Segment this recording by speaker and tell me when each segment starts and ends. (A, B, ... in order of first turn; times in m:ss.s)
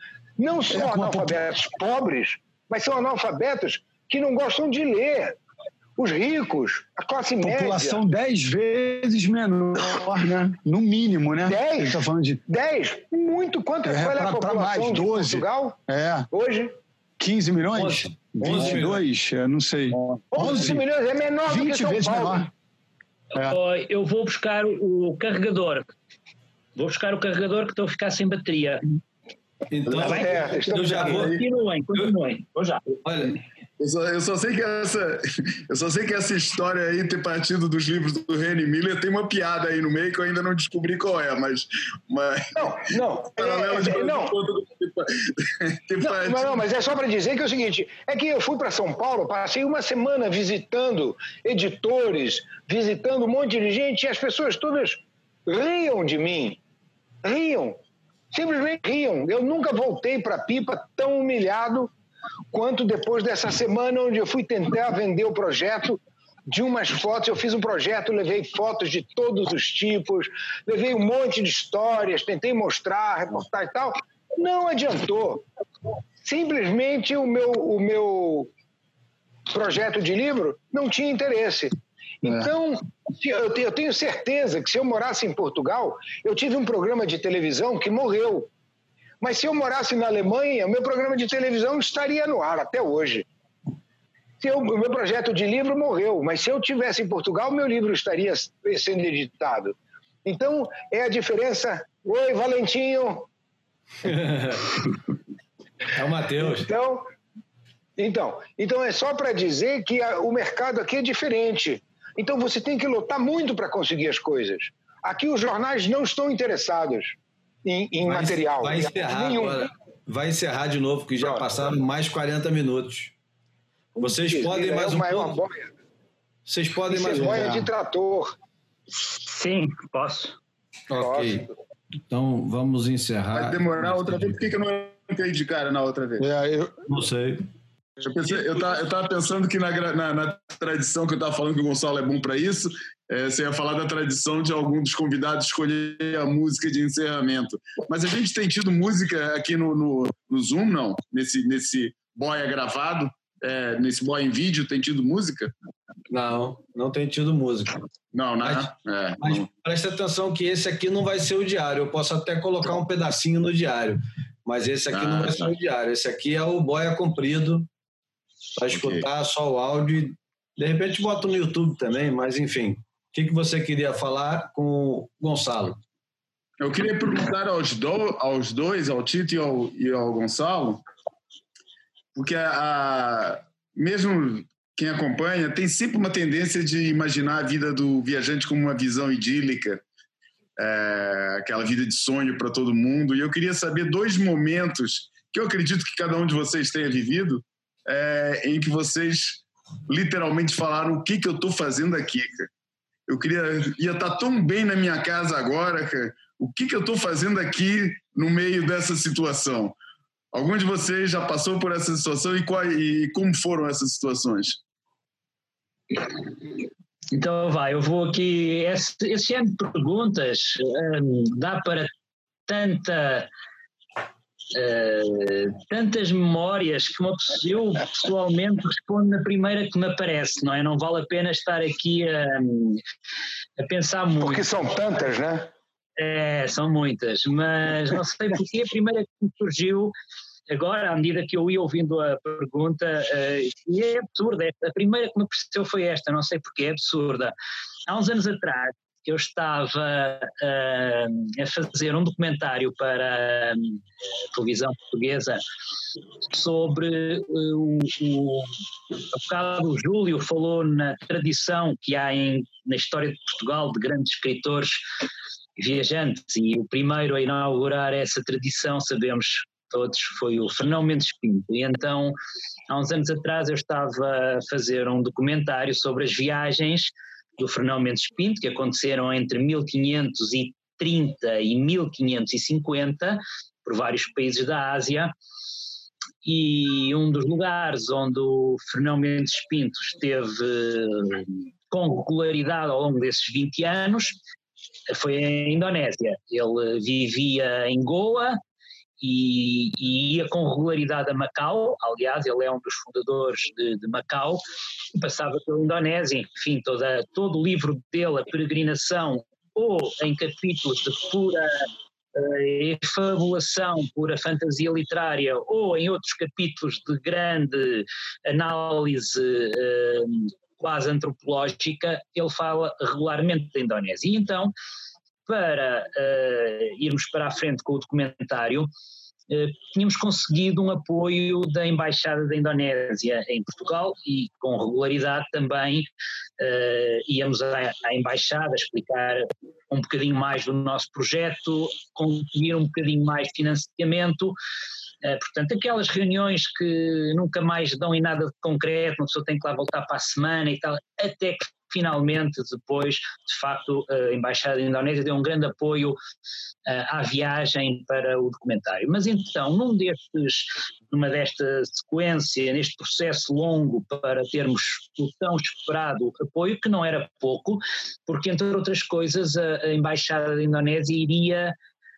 0:00.4-0:05.4 A
0:00.7-0:01.3 B
0:06.0-0:08.0 A
0:07.4-0:12.4 B
0:11.4-0:15.8 A
0:13.8-0:16.3 B
0:16.3-0:16.7 A
0:17.2-0:20.8 B
0:17.7-0:18.1 C
0:18.4-0:19.0 D
0:20.3-0:22.5 A
0:21.5-0:22.5 B
0:23.4-0:25.9 C
0:26.8-0:28.8 C
0:29.7-0:31.4 D
0:29.9-0:31.4 A
0:30.0-0:32.9 C
0:33.0-0:33.4 D
0:33.8-0:46.5 E
0:42.5-0:44.3 A
0:46.0-0:56.6 A
0:57.2-0:57.8 A
0:58.3-1:01.9 A
1:02.5-1:15.4 A
1:16.2-1:18.5 A
1:19.5-1:28.5 A
1:29.2-1:33.3 A
1:34.4-1:43.3 A
1:44.0-1:44.8 D
1:45.9-1:46.7 D
1:46.4-1:47.1 A
1:48.0-1:59.7 A
1:58.0-2:03.1 D
2:01.2-2:01.5 A
2:04.0-2:05.7 A
2:04.0-2:05.4 D
2:06.4-2:07.7 D
2:06.8-2:08.4 A
2:09.0-2:10.4 C
2:10.9-2:11.5 D
2:11.0-2:11.5 A
2:12.1-2:14.4 D
2:13.3-2:16.2 E
2:16.2-2:17.4 D
2:16.4-2:16.6 B
2:18.0-2:35.5 E
2:36.1-2:37.7 D
2:38.1-2:39.4 E
2:38.4-2:38.7 D
2:39.2-2:47.7 D
2:44.9-2:45.5 E
2:48.6-2:55.8 D
2:48.7-2:49.1 E
2:56.6-3:00.8 E
3:02.1-3:09.8 E
3:10.6-3:22.5 E
3:23.1-3:29.8 E
3:30.3-3:34.6 E
3:37.1-3:41.9 C
3:42.4-3:43.3 C
3:44.5-3:52.8 C
3:53.6-3:54.5 C
3:54.2-3:55.5 A
3:56.0-3:59.9 C
4:00.5-4:07.3 C
4:07.9-4:13.8 C
4:14.3-4:15.4 C
4:16.2-4:24.9 C
4:25.6-4:32.2 C
4:32.7-4:45.1 C
4:46.2-4:54.2 C
4:54.9-4:58.4 C
4:59.0-5:04.4 C
5:04.9-5:24.5 C
5:25.2-5:28.7 C
5:29.3-5:44.4 C
5:45.0-5:56.0 C
5:56.6-6:11.6 C